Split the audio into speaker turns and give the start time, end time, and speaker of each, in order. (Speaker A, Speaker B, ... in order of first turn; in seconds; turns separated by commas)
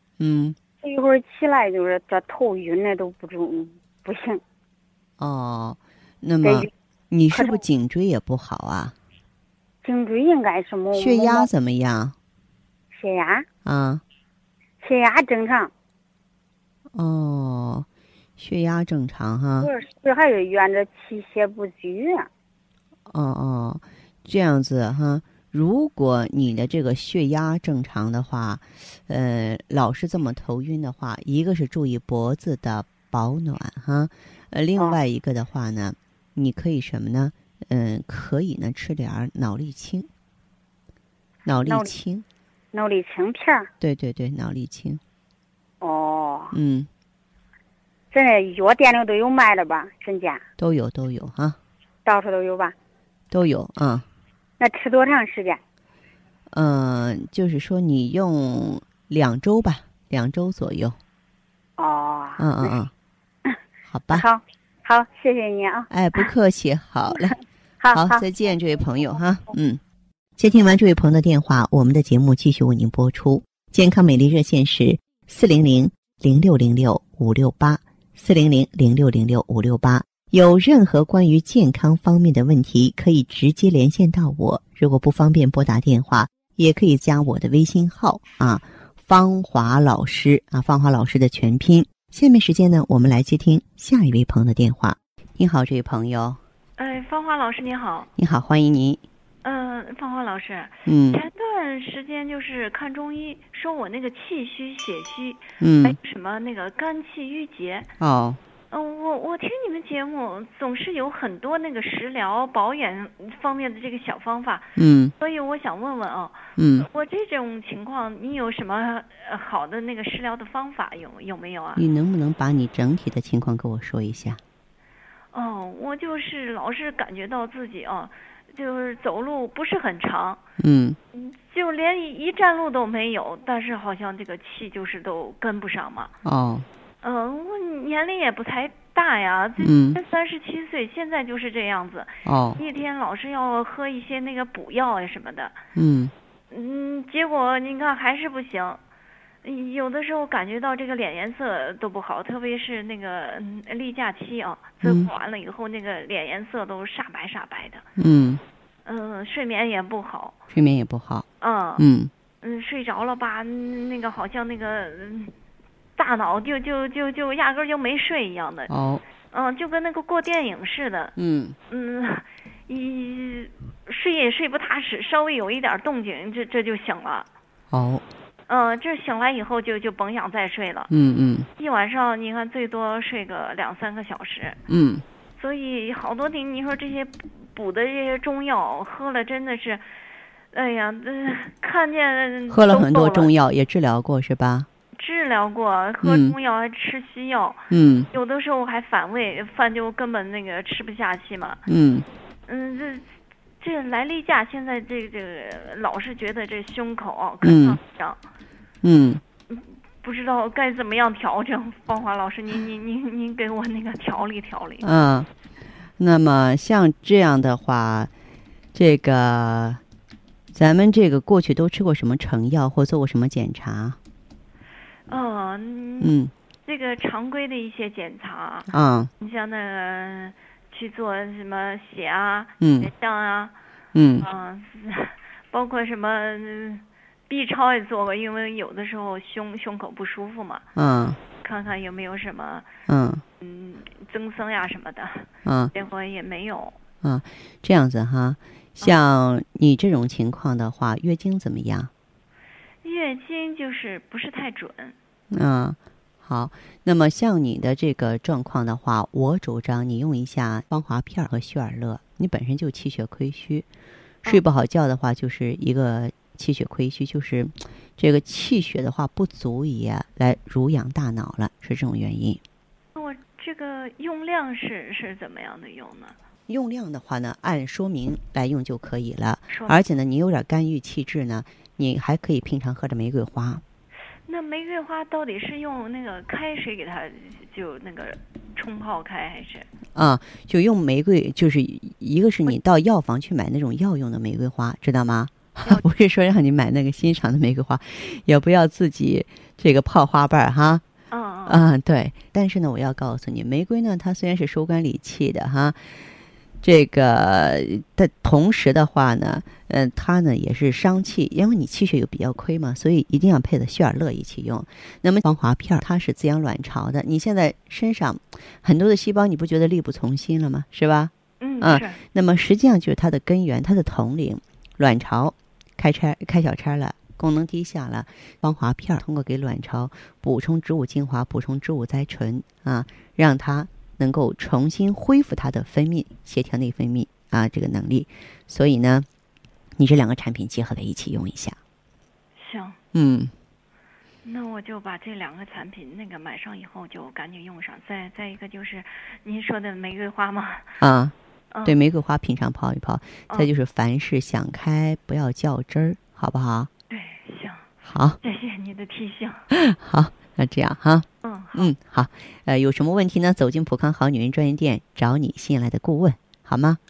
Speaker A: 0.2-0.6, Speaker B: 0.8-4.4, Speaker A: 5.2-8.9, Speaker B: 6.4-6.7, Speaker B: 7.3-7.6, Speaker B: 9.8-11.5, Speaker A: 10.9-12.2, Speaker B: 12.9-13.5, Speaker A: 13.7-14.0, Speaker B: 14.8-15.7, Speaker A: 16.9-17.9, Speaker A: 18.4-19.7, Speaker B: 19.6-22.3, Speaker A: 23.1-40.1, Speaker A: 41.5-42.2, Speaker B: 41.7-41.9, Speaker B: 42.7-43.7, Speaker A: 43.8-45.0, Speaker B: 45.8-46.5, Speaker A: 46.5-46.9, Speaker B: 48.1-50.4, Speaker A: 50.6-51.6, Speaker B: 52.0-52.7, Speaker A: 53.3-54.0, Speaker B: 54.6-55.6, Speaker A: 56.5-61.0, Speaker B: 61.8-62.7, Speaker A: 62.4-62.9, Speaker A: 63.9-64.3, Speaker B: 64.1-66.3, Speaker A: 65.9-67.4, Speaker B: 67.8-68.2, Speaker A: 67.9-69.8, Speaker A: 70.4-96.4, Speaker C: 96.8-98.1, Speaker A: 98.2-99.0, Speaker C: 99.4-107.9, Speaker A: 100.9-101.2, Speaker A: 105.6-106.0, Speaker A: 108.0-108.4, Speaker C: 108.7-121.8, Speaker A: 114.8-115.1, Speaker A: 116.6-116.9, Speaker A: 121.8-124.4, Speaker C: 125.3-130.4, Speaker A: 130.6-131.0, Speaker C: 131.1-136.1, Speaker A: 136.2-136.7, Speaker C: 137.0-145.6, Speaker A: 139.6-140.0, Speaker A: 142.2-142.6, Speaker A: 145.8-146.1, Speaker C: 146.5-148.8, Speaker C: 149.4-157.9, Speaker A: 154.8-155.1, Speaker A: 158.0-158.4, Speaker C: 158.8-160.4, Speaker A: 160.5-161.3, Speaker C: 161.4-161.8, Speaker A: 161.8-162.1, Speaker C: 162.4-165.3, Speaker C: 166.0-168.7, Speaker A: 168.7-169.0, Speaker C: 169.3-171.2, Speaker A: 171.2-171.6, Speaker C: 171.7-177.3, Speaker A: 177.7-178.0, Speaker C: 178.5-180.9, Speaker A: 180.9-181.5, Speaker C: 181.6-184.6, Speaker A: 184.7-185.0, Speaker C: 185.4-189.8, Speaker C: 190.5-193.3, Speaker A: 192.5-194.7, Speaker C: 194.9-201.6, Speaker A: 196.0-196.4, Speaker A: 197.7-198.1, Speaker A: 201.7-202.1, Speaker C: 202.5-208.2, Speaker A: 207.4-207.8, Speaker A: 208.8-209.2, Speaker C: 209.5-214.8, Speaker A: 214.8-215.3, Speaker A: 216.0-218.1, Speaker A: 218.8-219.8, Speaker A: 220.5-224.0, Speaker C: 225.1-226.1, Speaker A: 226.0-226.3, Speaker C: 226.7-233.5, Speaker A: 228.7-229.1, Speaker A: 232.6-232.9, Speaker A: 233.9-234.3, Speaker C: 234.2-240.7, Speaker A: 240.8-241.2, Speaker C: 241.4-242.7, Speaker A: 242.9-243.2, Speaker C: 243.4-246.8, Speaker A: 245.4-245.7, Speaker A: 247.0-251.9, Speaker C: 252.8-254.9, Speaker A: 255.3-263.7, Speaker A: 264.3-272.4, Speaker C: 272.9-276.2, Speaker A: 276.5-283.6, Speaker C: 279.5-279.8, Speaker C: 284.3-289.7, Speaker A: 289.9-300.8, Speaker C: 301.1-301.6, Speaker A: 301.5-305.8, Speaker A: 306.6-339.1, Speaker C: 321.4-322.0, Speaker A: 339.8-341.6, Speaker C: 342.4-342.8, Speaker A: 342.9-343.3, Speaker C: 344.2-350.8, Speaker A: 350.8-351.1, Speaker A: 351.6-356.7, Speaker C: 356.9-357.7, Speaker A: 357.9-358.2, Speaker C: 358.2-359.5, Speaker A: 359.5-366.8, Speaker C: 361.2-361.7